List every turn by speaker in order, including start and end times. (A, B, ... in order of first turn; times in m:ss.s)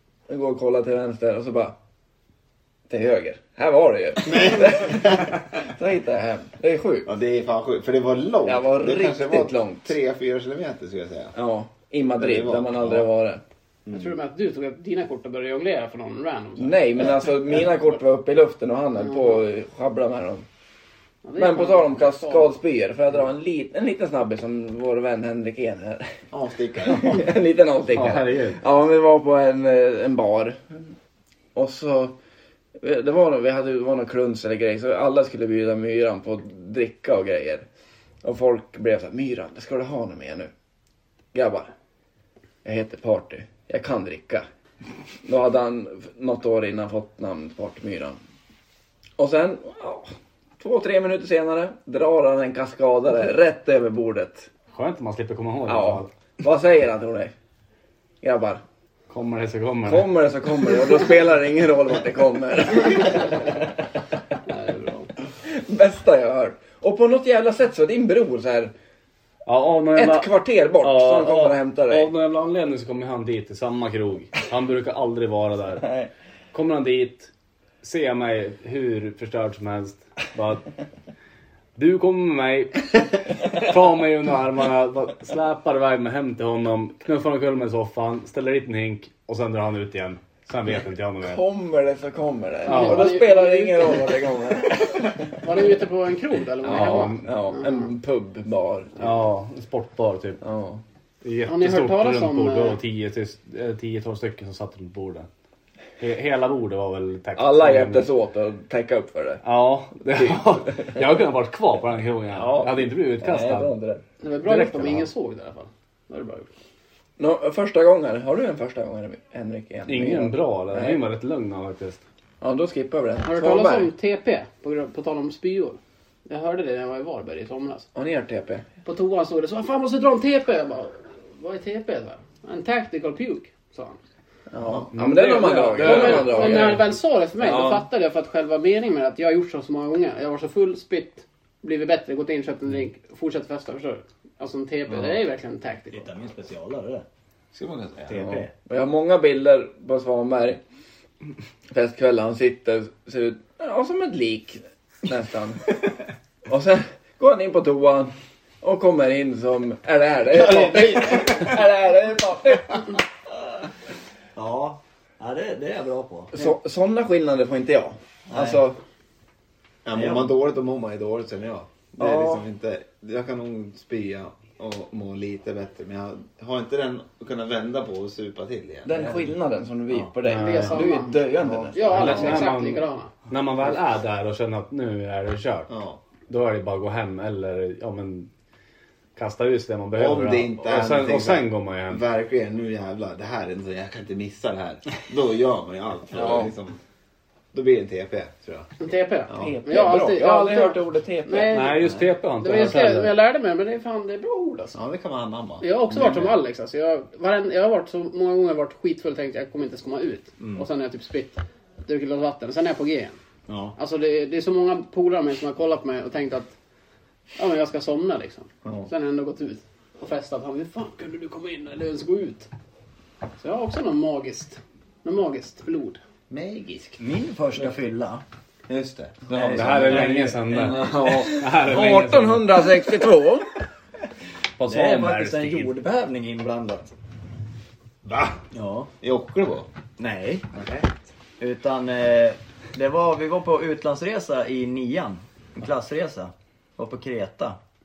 0:00.3-0:01.8 A
0:02.9-0:07.1 A
0:04.3-0:05.4 B
0:07.0-0:11.3 B
0:08.4-0:09.9 A
0:11.3-0:13.4 A
0:12.2-0:13.1 B
0:13.9-0:14.1 B
0:13.9-0:16.8 C
0:16.6-0:20.5 A
0:21.2-0:22.5 C
0:21.4-0:26.1 A
0:26.3-0:27.3 B
0:26.8-0:30.9 A
0:27.9-0:28.6 D
0:31.6-0:32.2 A
0:32.8-0:37.6 A
0:38.2-0:40.5 A
0:41.3-0:41.7 A
0:42.6-0:44.5 A
0:45.2-0:48.2 A
0:49.2-0:54.5 A
0:54.7-0:56.1 D
0:55.7-0:57.3 A
0:58.2-0:58.6 A
0:59.1-1:00.1 D
0:59.8-1:03.5 A
1:04.5-1:05.1 C
1:05.4-1:08.7 A
1:09.5-1:10.3 D
1:10.0-1:12.1 A
1:10.8-1:15.9 D
1:15.8-1:16.1 A
1:16.5-1:17.3 D
1:17.8-1:20.8 D
1:21.8-1:31.4 D
1:31.2-1:35.2 A
1:32.6-1:34.2 C
1:32.7-1:33.2 D
1:35.4-1:37.7 C
1:36.6-1:39.2 A
1:36.6-1:37.3 D
1:39.0-1:40.4 D
1:40.4-1:40.8 A
1:41.2-1:45.3 D
1:41.5-1:42.8 C
1:46.0-1:48.1 D
1:47.4-1:49.4 A
1:49.4-1:53.7 D
1:50.2-1:51.0 A
1:52.3-1:54.0 A
1:54.2-1:56.5 C
1:54.4-1:55.1 D
1:57.2-2:01.0 A
1:59.9-2:02.0 D
2:02.4-2:03.9 A
2:03.2-2:07.9 C
2:08.0-2:08.7 A
2:08.8-2:14.0 C
2:14.5-2:16.8 A
2:14.9-2:16.8 D
2:15.3-2:26.1 C
2:17.4-2:17.8 A
2:25.9-2:27.0 E
2:27.5-2:28.4 B
2:28.1-2:28.5 E
2:28.1-2:30.6 A
2:31.7-2:35.6 A
2:36.5-2:42.9 A
2:40.5-2:41.5 B
2:44.4-2:46.5 E
2:46.3-2:48.8 A
2:48.3-2:48.6 E
2:49.8-2:59.0 B
2:50.0-2:50.3 E
2:52.0-2:52.4 A
2:58.8-3:02.4 A
3:00.2-3:00.8 D
3:00.3-3:03.1 C
3:01.9-3:05.7 D
3:05.7-3:06.0 B
3:06.3-3:08.3 D
3:09.2-3:12.0 D
3:10.0-3:16.8 B
3:16.1-3:16.5 A
3:17.5-3:18.7 B
3:18.8-3:24.8 C
3:19.3-3:19.5 B
3:19.4-3:21.9 A
3:21.5-3:23.1 D
3:24.7-3:26.4 B
3:25.6-3:33.2 C
3:33.8-3:36.5 C
3:37.4-3:42.5 C
3:43.4-3:46.0 C
3:46.3-3:47.0 B
3:47.0-3:48.2 E
3:48.7-3:50.1 B
3:49.3-3:51.3 E
3:49.5-3:52.5 D
3:50.6-3:53.5 A
3:54.6-3:55.7 D
3:54.6-3:56.9 E
3:58.1-3:58.4 B
3:58.5-3:58.9 E
3:59.0-3:59.7 B
4:00.0-4:00.6 E
4:00.5-4:00.9 B
4:01.4-4:07.6 E